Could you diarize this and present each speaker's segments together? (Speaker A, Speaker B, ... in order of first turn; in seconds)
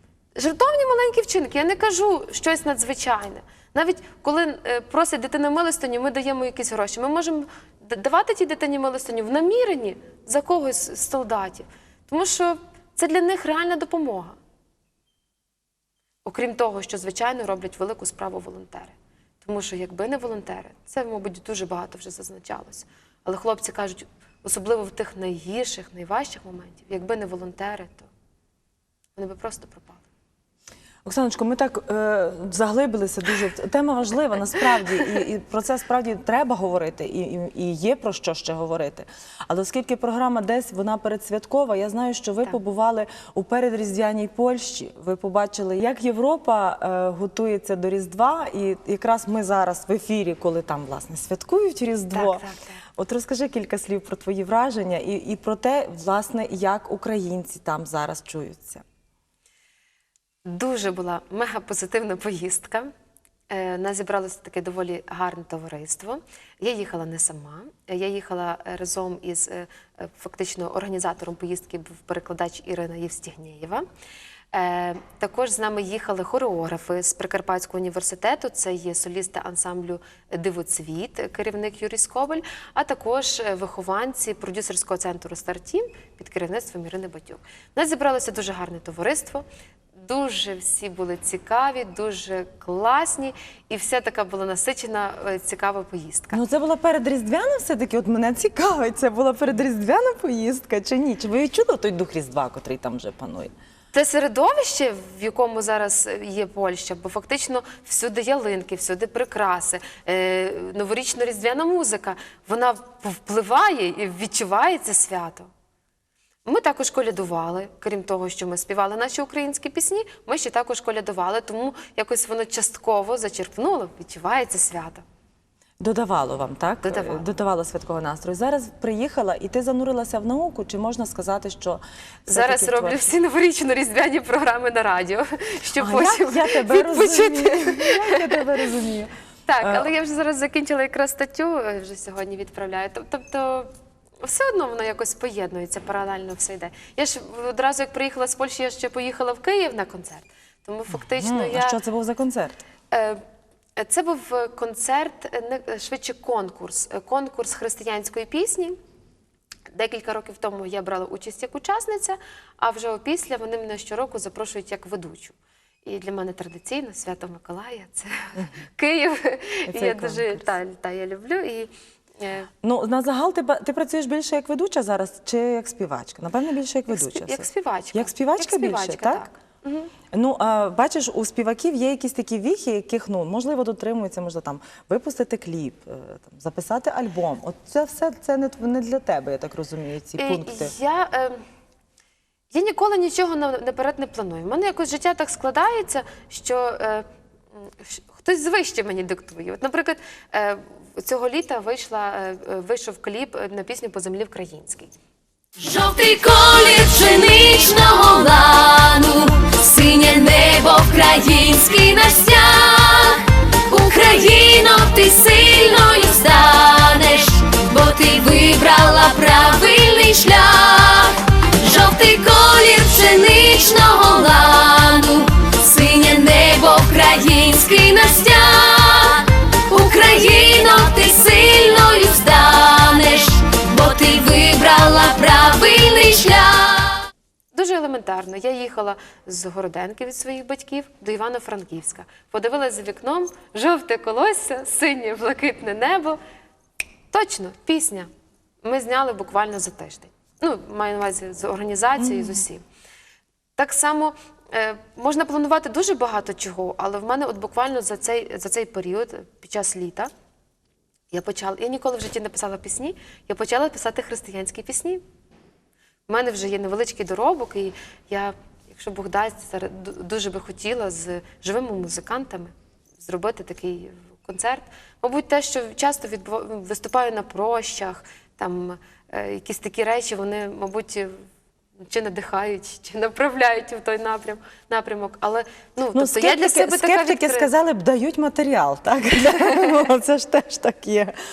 Speaker A: 0.4-14.4, 16.2-28.1, 29.1-30.1, 52.1-52.8, 60.5-62.9, 63.5-73.8, 74.5-89.5, 90.0-96.4, 103.9-115.5, 116.5-125.0, 126.8-127.2, 132.3-138.5, 139.5-143.7, 144.2-151.8, 152.9-153.2, 153.8-158.8, 159.7-172.5, 176.9-179.9, 190.2-191.4, 192.5-197.1, 197.6-204.9, 237.5-246.2, 247.1-248.1, 248.6-252.6, 253.6-260.1, 261.1-265.0, 266.1-281.2, 281.8-287.5
Speaker B: 31.0-52.5, 53.0-58.8, 96.3-103.5, 125.8-133.1, 135.8-139.9, 150.9-152.6, 169.7-170.5, 172.6-179.3, 180.1-190.7, 252.0-252.4, 285.9-291.1
Speaker C: 205.6-237.1